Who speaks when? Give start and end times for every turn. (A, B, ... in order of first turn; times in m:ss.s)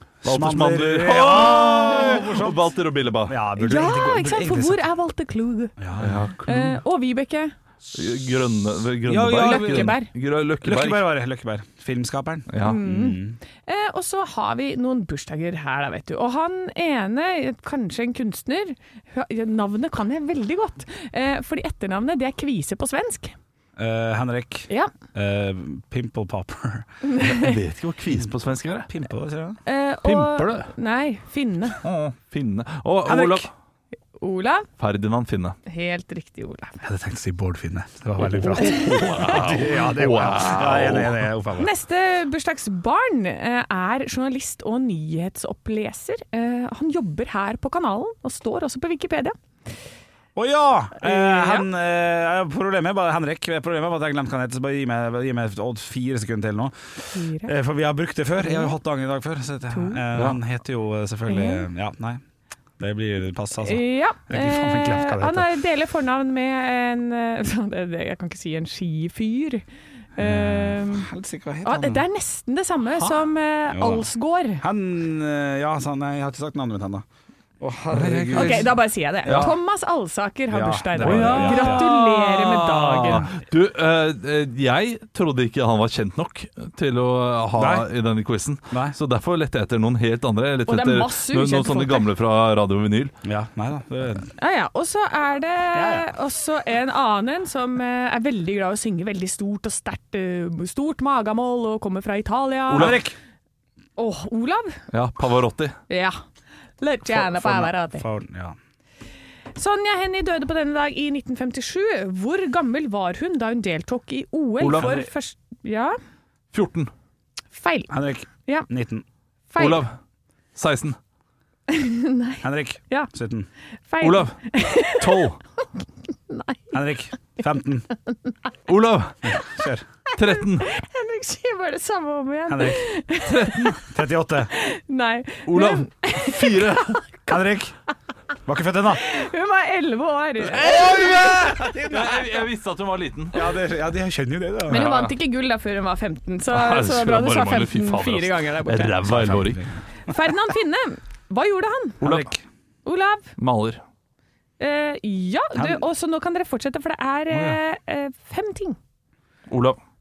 0:00.2-0:02.6 A
0:00.2-0:03.4 B
0:03.3-0:04.8 A
0:03.6-0:05.7 C
0:05.8-0:06.2 A
0:06.0-0:06.8 B
0:06.4-0:07.5 C
0:07.9-0:11.1 B
0:09.0-0:10.0 A
0:09.3-0:10.1 C
0:10.6-0:13.4 A
0:12.5-0:12.8 B
0:12.6-0:23.4 C
0:23.8-0:26.9 A
0:27.0-0:27.5 C
0:27.2-0:28.9 B
0:28.9-0:29.6 A
0:29.6-0:31.8 C
0:30.0-0:30.7 B
0:31.8-0:33.5 B
0:33.0-0:33.5 A
0:34.2-0:34.7 C
0:34.8-0:35.6 B
0:35.6-0:36.8 C
0:36.8-0:41.7 A
0:38.2-0:41.2 B
0:41.6-0:49.4 C
0:50.3-1:02.2 A
0:51.0-0:51.7 C
0:57.1-0:57.5 C
0:58.4-0:58.7 C
0:59.7-1:00.0 C
1:01.3-1:01.6 C
1:02.8-1:05.5 A
1:03.6-1:09.6 C
1:10.2-1:11.1 C
1:10.2-1:12.0 A
1:11.6-1:14.6 C
1:13.7-1:14.1 A
1:14.6-1:17.0 A
1:17.6-1:19.6 A
1:17.9-1:19.5 B
1:18.3-1:23.3 C
1:20.5-1:21.9 A
1:21.0-1:33.1 B
1:27.5-1:27.9 A
1:28.7-1:29.0 A
1:30.7-1:32.1 C
1:33.2-1:34.3 A
1:34.4-1:43.0 C
1:35.7-1:36.1 A
1:42.7-1:43.0 B
1:42.7-1:43.1 A
1:44.0-1:44.8 C
1:44.9-1:45.8 B
1:45.9-1:46.2 C
1:46.8-1:48.0 C
1:47.1-1:48.6 A
1:49.5-1:55.9 C
1:54.6-1:55.1 B
1:56.5-1:56.9 B
1:57.5-1:57.9 C
1:57.9-1:59.0 A
1:59.5-1:59.8 C
1:59.6-1:59.9 B
2:00.6-2:01.0 B
2:01.7-2:03.1 C
2:02.4-2:03.5 A
2:03.9-2:05.2 C
2:04.0-2:05.4 B
2:06.3-2:06.8 C
2:06.7-2:07.9 A
2:08.7-2:09.4 B
2:09.2-2:09.8 A
2:10.2-2:10.7 B
2:10.2-2:13.8 C
2:12.5-2:12.8 A
2:13.2-2:13.8 B
2:13.8-2:14.5 A
2:14.5-2:17.2 C
2:15.4-2:17.0 B
2:17.3-2:17.7 A
2:18.4-2:19.0 A
2:19.0-2:21.4 C
2:20.4-2:23.4 B
2:20.7-2:22.2 A
2:23.3-2:24.9 A
2:24.7-2:29.0 C
2:24.7-2:25.1 B
2:26.5-2:29.6 B
2:29.0-2:29.8 A
2:30.1-2:32.0 C
2:32.0-2:32.3 B
2:32.0-2:32.4 A
2:32.8-2:33.3 C
2:33.4-2:33.8 B
2:34.6-2:38.8 C
2:35.5-2:35.8 A
2:37.3-2:37.6 A
2:39.5-2:39.8 B